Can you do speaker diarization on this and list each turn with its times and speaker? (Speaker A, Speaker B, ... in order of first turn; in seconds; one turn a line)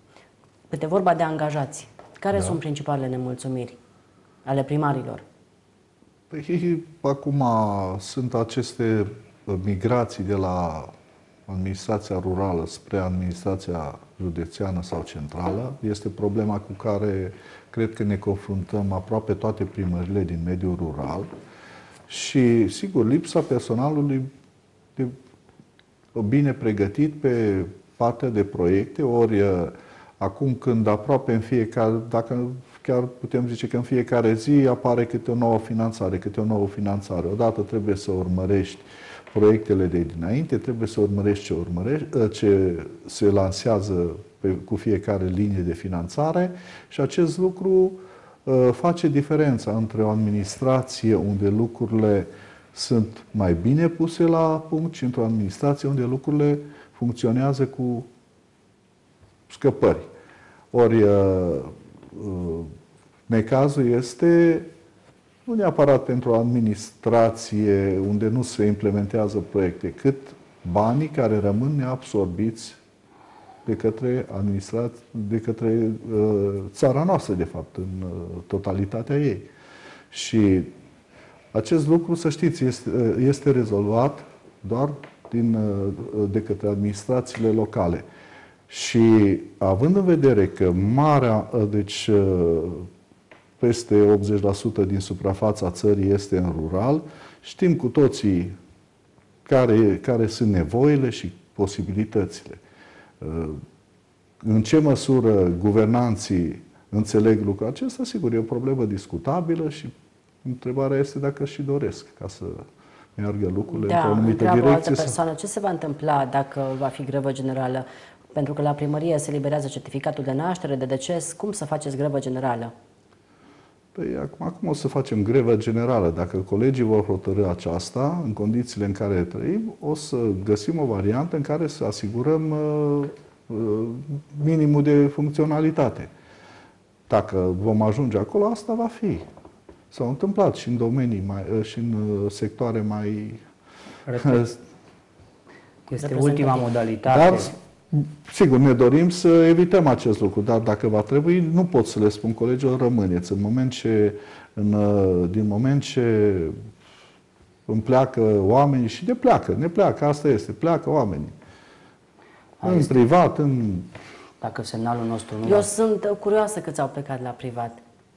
Speaker A: 0.7-3.8
Speaker A: 4.5-5.2
Speaker B: 6.3-10.9
Speaker B: 11.5-21.3
Speaker B: 22.1-24.3
Speaker B: 26.1-58.1
Speaker B: 59.5-60.1
Speaker B: 60.7-62.7
Speaker B: 63.3-64.7
Speaker B: 65.5-72.8
Speaker B: 73.6-79.5
Speaker B: 80.1-80.7
Speaker B: 81.5-88.0
Speaker B: 88.7-92.9
Speaker B: 93.6-98.6
Speaker B: 99.5-102.6
Speaker B: 103.2-103.6
Speaker B: 104.4-112.6
Speaker B: 113.2-115.2
Speaker A: 113.7-122.7
Speaker B: 123.9-136.1
Speaker B: 137.1-139.3
Speaker B: 139.9-143.4
Speaker C: 144.1-144.5
Speaker C: 145.9-147.5
Speaker A: 146.0-146.7
Speaker B: 147.1-156.5
Speaker B: 157.7-161.3
Speaker C: 162.6-162.9
Speaker B: 162.6-163.9
Speaker C: 164.4-165.7
Speaker A: 165.4-167.8